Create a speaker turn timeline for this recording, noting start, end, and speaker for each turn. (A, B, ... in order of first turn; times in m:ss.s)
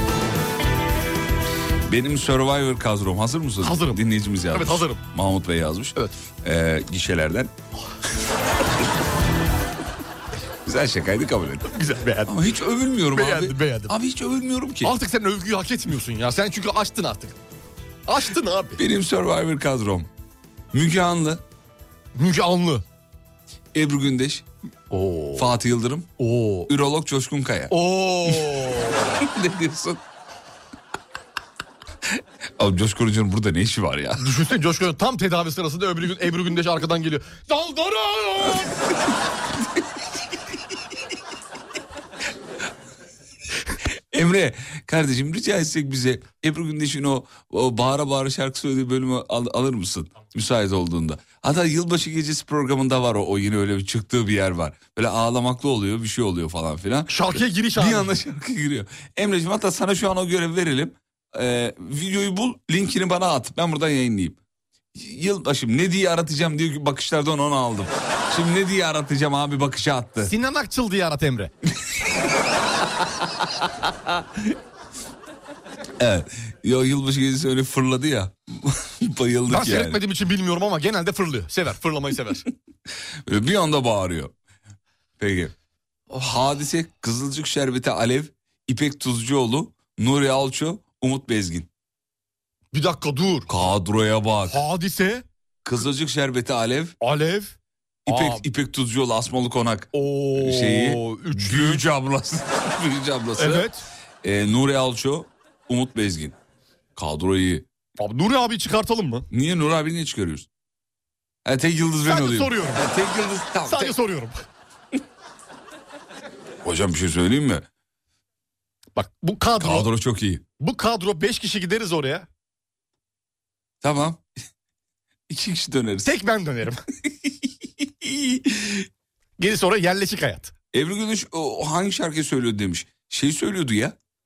0:01.8-0:07.5 A
0:03.6-0:04.0 B
0:04.5-0:05.0 B
0:10.6-0:11.7 A
0:11.7-0:12.3 B
0:12.2-0:14.9 A
0:13.1-0:13.9 B
0:14.8-0:17.4 B
0:18.1-0:18.8 B
0:18.8-0:20.1 A
0:20.7-0:21.4 A
0:22.1-0:22.8 B
0:23.7-0:24.4 A
0:24.9-0:25.5 B
0:25.4-0:26.1 A
0:26.2-0:26.7 B
0:26.7-0:27.7 A
0:27.7-0:29.2 B
0:29.1-0:30.0 A
0:32.6-0:34.3 A
0:34.2-0:38.7 B
0:44.1-0:57.2 A
0:57.1-0:58.1 B
0:57.8-1:04.4 A
1:04.9-1:10.3 A
1:10.2-1:11.5 B
1:16.0-1:20.0 A
1:19.5-1:22.4 B
1:23.2-1:24.3 A
1:25.2-1:25.5 A
1:26.1-1:31.7 A
1:32.7-1:33.5 B
1:33.5-1:34.6 A
1:34.5-1:35.2 B
1:35.6-1:36.9 A
1:37.0-1:37.5 B
1:38.1-1:43.7 A
1:38.1-1:38.4 B
1:39.9-1:41.8 B
1:43.4-1:43.8 B
1:44.2-1:46.4 A
1:47.0-1:47.6 A
1:48.0-1:49.2 B
1:49.3-1:50.5 A
1:51.4-1:54.0 A
1:52.0-1:52.8 B
1:53.6-1:54.4 B
1:56.6-1:57.7 A
1:59.0-1:59.9 B
1:59.6-2:00.4 A
2:00.6-2:02.3 B
2:03.8-2:04.2 A
2:05.3-2:06.1 A
2:06.0-2:06.8 B
2:07.2-2:08.4 A
2:09.4-2:10.5 B
2:10.7-2:14.0 A